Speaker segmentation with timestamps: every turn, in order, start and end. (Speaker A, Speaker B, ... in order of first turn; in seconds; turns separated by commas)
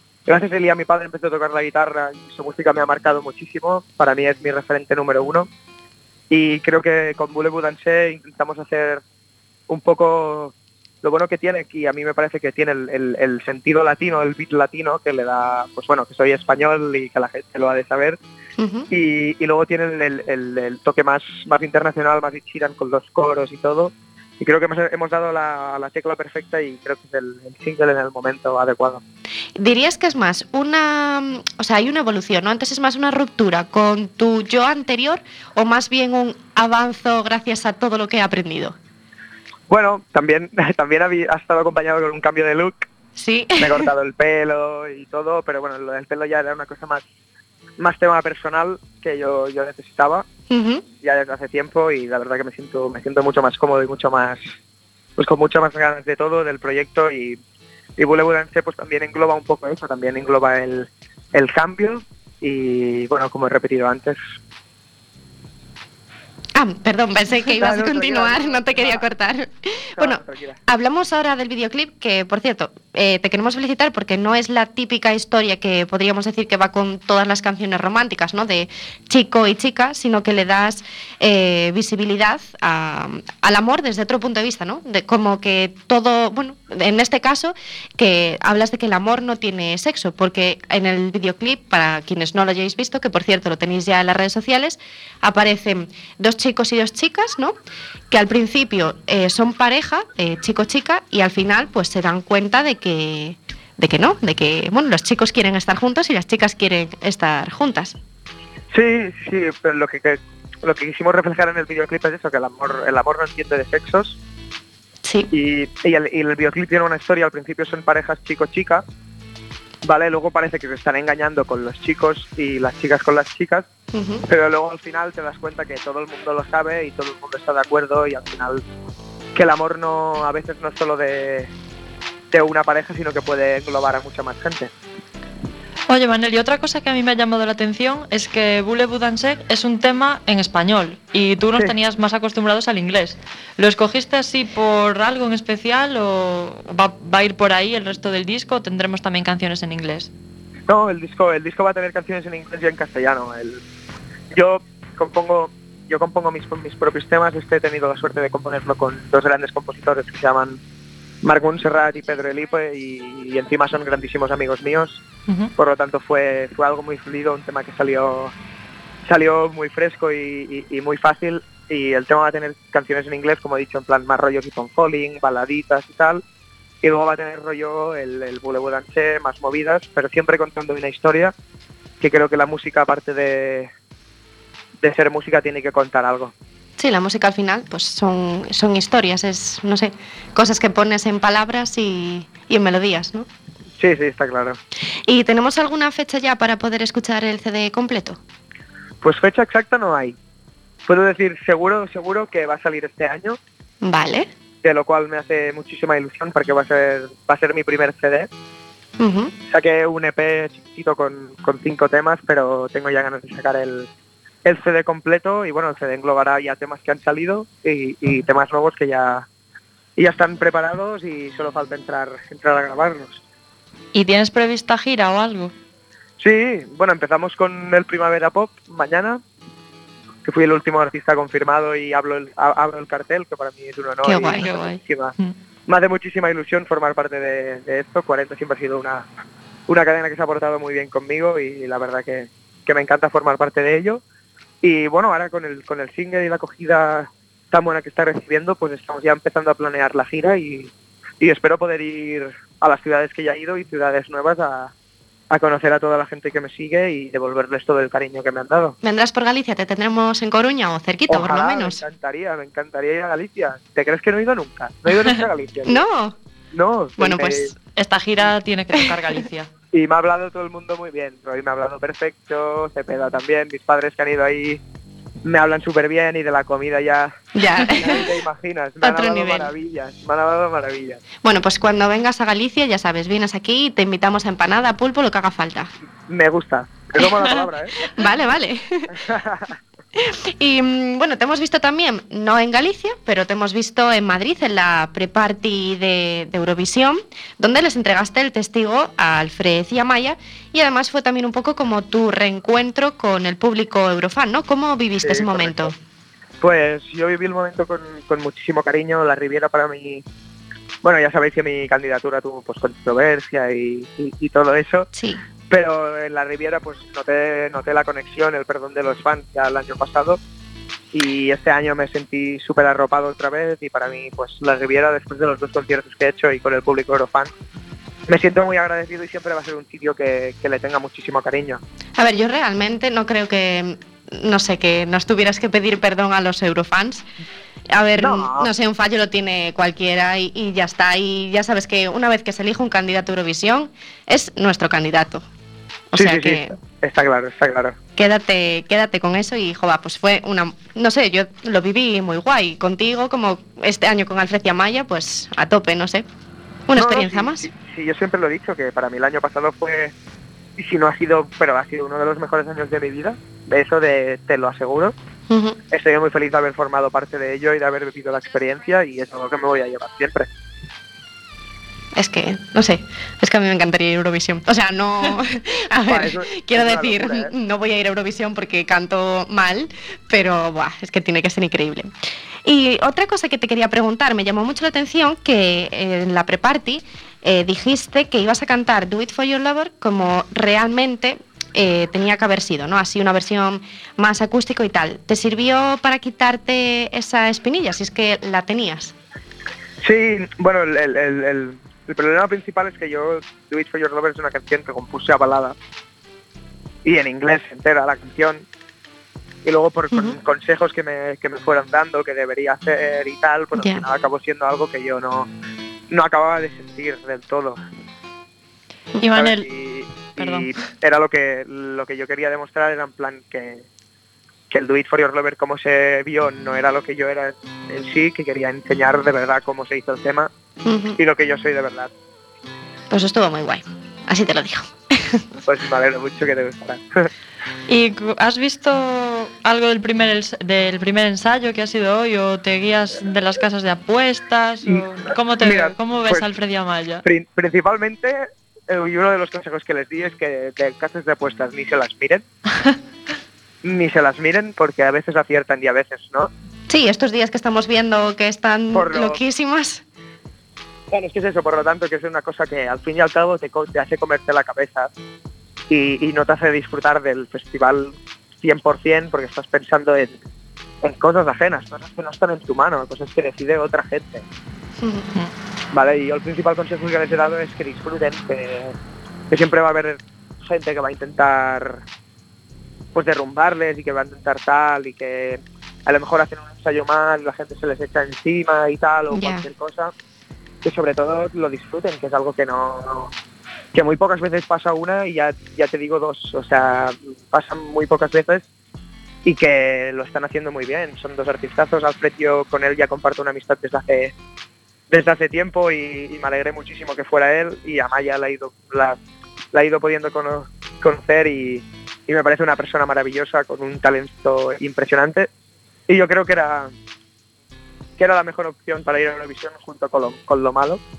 Speaker A: 0.2-5.5, Speaker A: 6.3-9.0, Speaker A: 9.7-18.2, Speaker B: 18.6-18.9, Speaker A: 18.9-29.0, Speaker B: 29.6-38.8, Speaker A: 39.7-42.9, Speaker B: 43.1-43.9, Speaker A: 43.6-47.0, Speaker A: 47.8-50.3, Speaker B: 50.5-50.9, Speaker A: 51.0-54.4, Speaker A: 55.2-57.4, Speaker A: 58.0-64.2, Speaker B: 66.5-97.5, Speaker A: 67.4-69.1, Speaker A: 70.0-70.6, Speaker B: 98.1-108.0, Speaker A: 108.7-114.2, Speaker B: 115.0-115.3, Speaker A: 115.3-118.8, Speaker A: 119.8-123.7, Speaker B: 123.9-124.2, Speaker A: 124.3-128.6, Speaker A: 129.3-131.5, Speaker A: 132.3-134.7, Speaker C: 135.9-150.1, Speaker A: 150.7-153.6, Speaker A: 154.3-160.6, Speaker A: 161.2-165.0, Speaker A: 165.6-168.3, Speaker A: 169.0-176.2, Speaker A: 176.8-181.3, Speaker A: 182.0-183.7, Speaker A: 184.8-186.3, Speaker B: 186.8-193.3, Speaker A: 193.8-194.6, Speaker B: 195.1-198.2, Speaker A: 199.0-200.2, Speaker A: 200.8-203.4, Speaker B: 203.8-204.3, Speaker A: 204.6-208.3, Speaker B: 209.0-209.3, Speaker A: 209.5-213.9, Speaker A: 214.4-219.3, Speaker A: 220.0-223.2, Speaker C: 223.9-225.5, Speaker A: 226.2-229.2, Speaker A: 230.2-235.1, Speaker B: 234.0-234.5, Speaker C: 234.3-235.3, Speaker A: 235.7-239.1, Speaker A: 239.7-244.0, Speaker A: 244.6-254.7, Speaker A: 255.3-258.8, Speaker B: 258.8-261.8, Speaker A: 261.1-265.8, Speaker B: 265.6-266.1, Speaker A: 266.5-267.5, Speaker B: 267.0-267.5, Speaker C: 267.8-269.5, Speaker A: 269.7-274.6, Speaker A: 275.2-281.0, Speaker B: 277.3-278.1, Speaker B: 278.8-279.5, Speaker B: 281.2-285.7, Speaker A: 286.1-287.8, Speaker B: 287.8-288.9, Speaker A: 289.0-289.5, Speaker B: 289.9-305.7, Speaker A: 305.0-305.7, Speaker A: 306.4-310.0, Speaker A: 310.8-314.9, Speaker B: 314.9-315.2, Speaker A: 315.5-320.2, Speaker A: 320.9-327.3, Speaker A: 328.1-331.6, Speaker B: 332.0-337.1, Speaker B: 337.7-345.2, Speaker A: 338.0-338.5, Speaker B: 345.9-346.5, Speaker A: 345.9-347.8, Speaker B: 348.0-356.1, Speaker B: 356.7-357.5, Speaker A: 356.8-359.9, Speaker A: 360.6-364.9, Speaker B: 365.3-365.6, Speaker A: 365.7-370.3, Speaker B: 371.9-381.9, Speaker A: 375.9-377.3, Speaker B: 382.4-398.9, Speaker A: 399.8-405.6, Speaker A: 406.8-408.4, Speaker A: 409.4-415.3, Speaker B: 413.6-413.8, Speaker A: 415.9-417.6, Speaker C: 419.0-419.5, Speaker A: 419.1-423.6, Speaker C: 420.2-420.5, Speaker A: 424.5-430.3, Speaker B: 430.6-431.0, Speaker A: 431.0-431.9, Speaker B: 432.9-435.2, Speaker A: 435.4-437.1, Speaker C: 437.7-447.0, Speaker A: 445.4-446.3, Speaker A: 447.0-452.2, Speaker A: 453.6-456.3, Speaker B: 456.7-459.8, Speaker A: 458.7-459.2, Speaker A: 460.9-464.9, Speaker A: 465.7-470.2, Speaker A: 470.8-474.2, Speaker B: 474.8-475.1, Speaker A: 475.7-478.7, Speaker A: 479.3-481.8, Speaker A: 482.9-489.9, Speaker B: 489.1-489.5, Speaker A: 490.6-493.1, Speaker A: 493.7-498.4, Speaker A: 499.2-504.1, Speaker A: 504.9-509.0, Speaker A: 509.5-515.3, Speaker A: 515.9-516.7, Speaker A: 518.0-520.8